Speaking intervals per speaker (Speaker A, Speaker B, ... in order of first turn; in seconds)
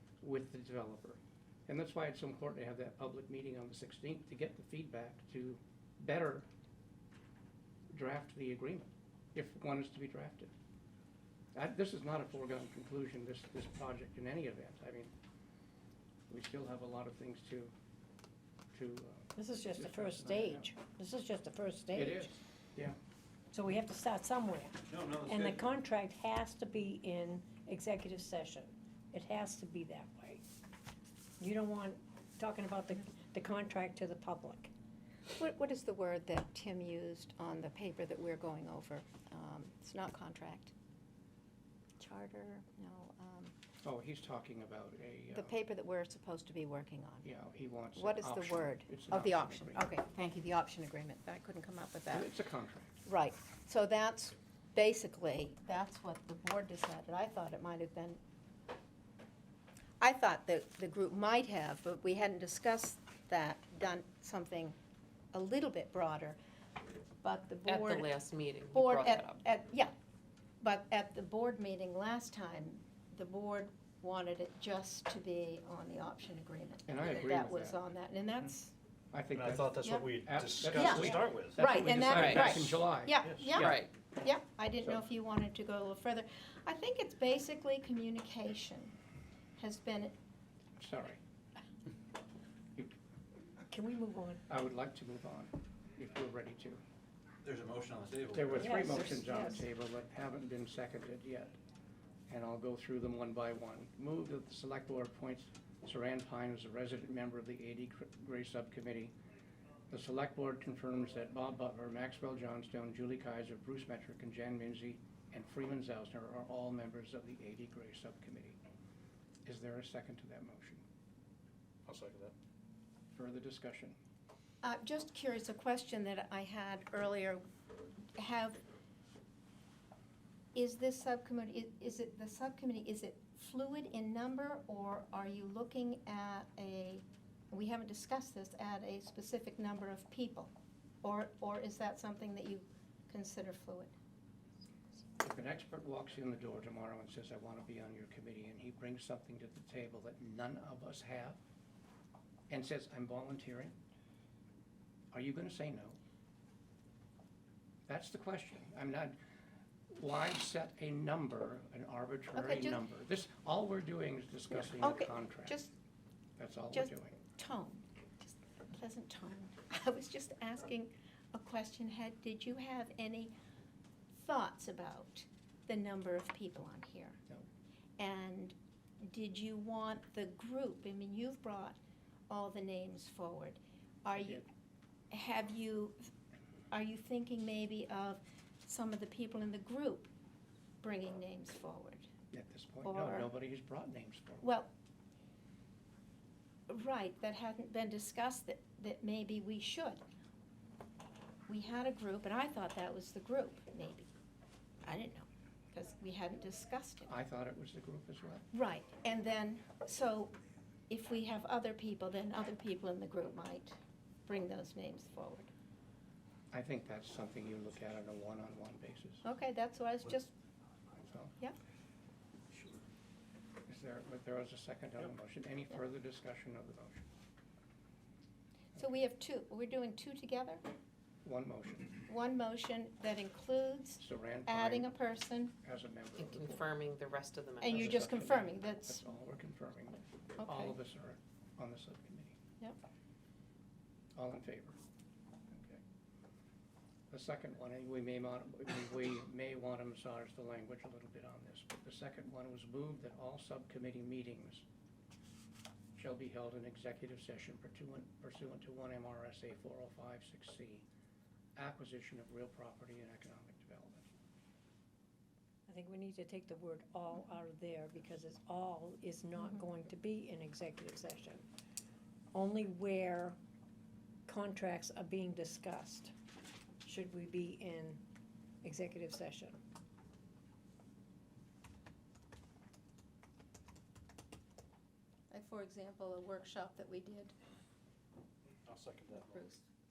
Speaker A: 0.2-6.5, 7.9-10.5, 11.5-15.1, 16.3-17.7, 18.7-20.7, 21.9-22.9, 43.8-45.5, 47.2-49.9, 52.1-53.0, 76.9-77.8, 79.1-83.8, 90.8-91.2, 94.5-96.8, 98.3-101.6, 102.3-109.1, 109.9-118.6, 119.5-120.8, 123.1-124.0, 145.2-151.4, 152.5-153.8, 155.1-156.0, 157.9-159.2, 159.9-165.6, 166.4-167.2, 184.2-184.4, 192.3-194.5, 207.1-208.4, 216.5-219.2, 221.1-221.3, 223.7-227.1, 231.2-232.0, 234.0-234.9, 235.6-236.7, 237.7-242.3, 244.2-244.8, 245.5-245.8, 247.1-254.6, 255.9-260.9, 261.6-264.1
Speaker B: 19.3-22.3, 23.5-24.8, 25.3-30.4, 31.4-34.7, 93.6-94.5, 98.6-99.6, 265.7-271.4, 272.3-273.4, 274.2-276.1, 276.8-278.0, 278.6-279.6
Speaker C: 24.9-25.7, 79.3-82.6, 83.2-83.6, 97.4-98.9, 121.8-122.3, 288.6-289.5
Speaker D: 35.4-40.7, 42.0-43.5, 45.3-47.2, 48.0-52.3, 53.0-58.2, 60.0-64.8, 65.3-66.4, 67.2-68.1, 68.7-69.9, 70.6-78.7, 80.7-88.9, 89.6-90.1, 124.6-127.4, 128.2-128.6, 130.5-140.5, 141.0-143.9, 162.3-162.8, 164.8-165.7, 166.7-173.3, 174.1-177.2, 178.0-181.8, 182.3-184.4, 185.1-186.1, 186.7-190.1, 190.8-192.1, 192.8-193.3, 194.4-194.7, 196.7-200.0, 201.5-204.1, 204.8-207.1, 208.5-210.3, 210.9-213.8, 214.3-215.5, 219.2-220.3, 228.8-230.6, 232.1-235.5, 237.6-239.1, 240.4-240.7, 285.3-287.3, 289.1-289.6
Speaker E: 67.7-69.4, 82.1-82.5, 83.5-83.9, 236.2-238.2